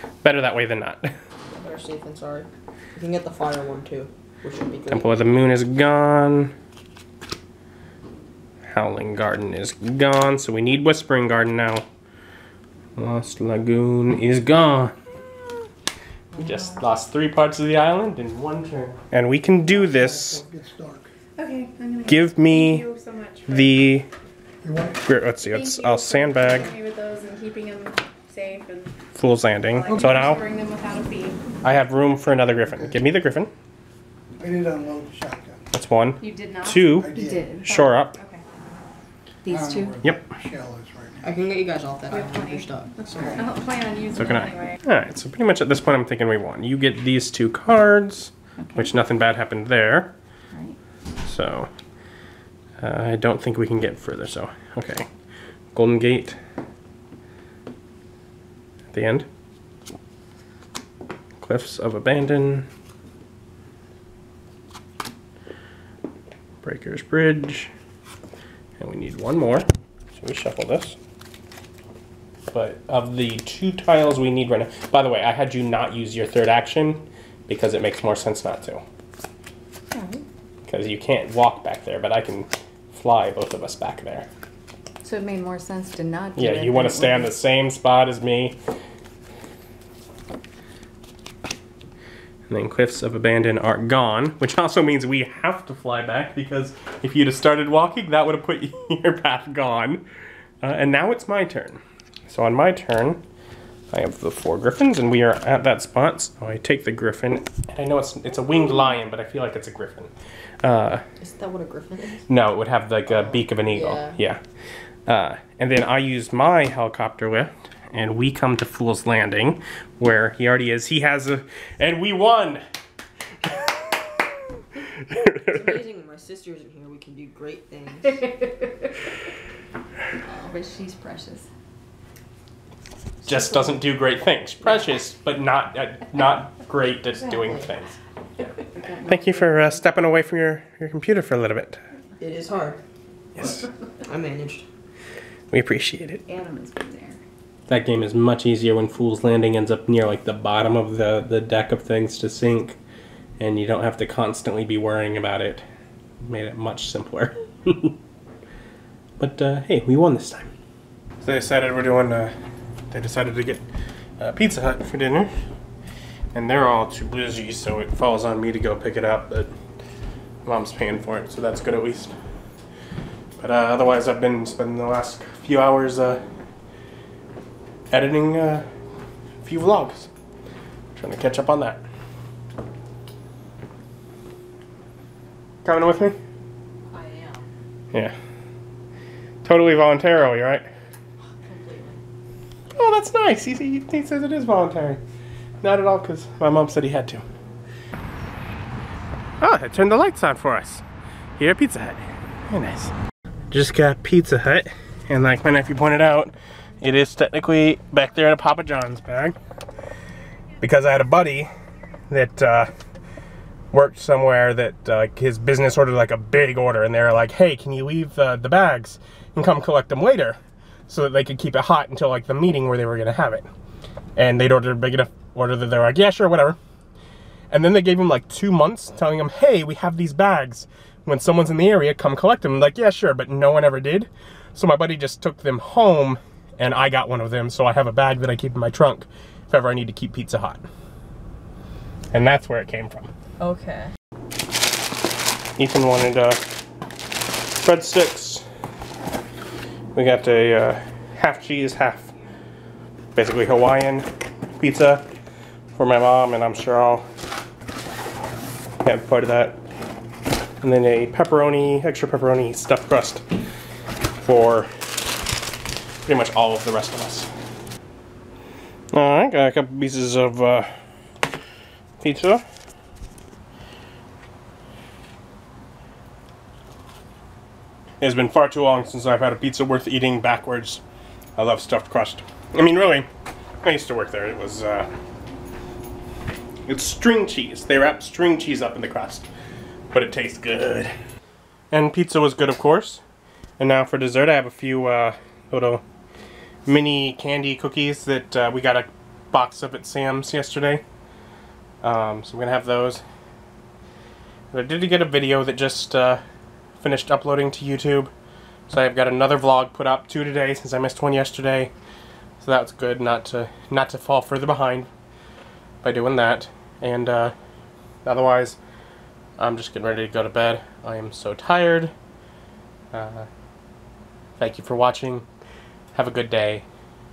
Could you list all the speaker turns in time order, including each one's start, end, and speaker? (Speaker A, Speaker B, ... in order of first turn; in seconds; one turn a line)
Speaker A: 0.2-1.1
Speaker B: 1.5-5.1
Speaker A: 4.9-6.5
Speaker A: 8.7-11.8
Speaker A: 13.0-14.9
Speaker A: 16.4-20.4
Speaker C: 19.7-21.1
Speaker D: 21.4-23.7
Speaker A: 22.1-22.9
Speaker A: 23.5-24.1
Speaker C: 24.6-25.0
Speaker A: 25.0-26.7
Speaker D: 25.4-28.9
Speaker A: 29.1-30.4
Speaker D: 29.7-31.4
Speaker A: 31.6-33.5
Speaker C: 34.4-35.6
Speaker A: 35.7-37.1
Speaker E: 36.2-38.3
Speaker C: 37.0-37.5
Speaker A: 37.6-38.2
Speaker E: 39.4-40.0
Speaker C: 39.5-41.3
Speaker B: 41.2-43.5
Speaker D: 42.1-44.8
Speaker E: 43.4-43.6
Speaker A: 44.1-50.1
Speaker E: 48.6-48.9
Speaker E: 50.5-50.8
Speaker A: 51.2-51.7
Speaker A: 52.8-55.1
Speaker A: 55.7-56.4
Speaker A: 58.9-59.3
Speaker A: 61.4-62.7
Speaker A: 66.6-67.7
Speaker A: 68.8-71.0
Speaker A: 72.5-78.8
Speaker E: 79.9-80.2
Speaker A: 80.7-84.3
Speaker E: 85.0-87.3
Speaker A: 86.4-88.6
Speaker A: 92.5-100.0
Speaker A: 100.6-103.2
Speaker A: 103.9-111.0
Speaker B: 111.2-112.3
Speaker A: 112.3-114.4
Speaker B: 113.2-114.2
Speaker A: 115.1-122.6
Speaker A: 123.4-125.8
Speaker B: 125.5-128.3
Speaker E: 128.1-128.5
Speaker E: 130.2-131.5
Speaker E: 133.2-133.8
Speaker A: 133.3-138.0
Speaker E: 137.2-137.7
Speaker E: 138.6-139.8
Speaker A: 139.0-141.8
Speaker B: 142.2-142.8
Speaker A: 143.4-143.7
Speaker B: 144.1-144.7
Speaker A: 145.5-146.2
Speaker E: 146.3-147.2
Speaker A: 147.7-152.8
Speaker A: 153.4-155.6
Speaker A: 156.2-158.0
Speaker A: 159.2-160.5
Speaker A: 161.2-162.3
Speaker A: 162.9-163.6
Speaker A: 164.2-165.3
Speaker A: 166.3-169.5
Speaker A: 170.4-172.1
Speaker A: 173.4-176.2
Speaker A: 177.9-178.7
Speaker A: 179.4-180.1
Speaker A: 181.0-181.8
Speaker A: 185.6-186.2
Speaker B: 186.9-187.5
Speaker A: 189.4-190.7
Speaker B: 191.3-192.0
Speaker A: 192.7-195.0
Speaker A: 195.6-197.2
Speaker A: 199.4-200.8
Speaker A: 201.4-202.9
Speaker A: 203.5-209.4
Speaker A: 210.6-211.5
Speaker A: 212.1-212.7
Speaker A: 213.7-223.5
Speaker A: 224.2-226.6
Speaker A: 227.5-240.6
Speaker A: 242.1-243.1
Speaker B: 243.4-243.9
Speaker A: 245.6-246.4
Speaker A: 247.6-248.4
Speaker A: 249.9-252.1
Speaker A: 253.2-255.1
Speaker A: 255.8-257.1
Speaker A: 258.8-259.6
Speaker A: 260.6-263.2
Speaker A: 264.2-264.7
Speaker A: 266.1-267.3
Speaker A: 268.9-270.7
Speaker A: 272.0-272.4
Speaker A: 278.0-280.8
Speaker A: 281.4-283.1
Speaker A: 283.6-284.9
Speaker A: 286.7-289.3
Speaker A: 289.9-290.9
Speaker A: 291.7-293.0
Speaker A: 293.6-295.8
Speaker A: 296.7-300.8
Speaker A: 301.8-303.0
Speaker A: 304.5-306.2
Speaker A: 306.8-308.1
Speaker A: 308.7-311.7
Speaker A: 312.4-314.9
Speaker A: 315.8-317.3
Speaker A: 318.1-318.6
Speaker A: 319.4-321.9
Speaker A: 322.9-323.3
Speaker A: 324.4-325.3
Speaker A: 325.9-326.6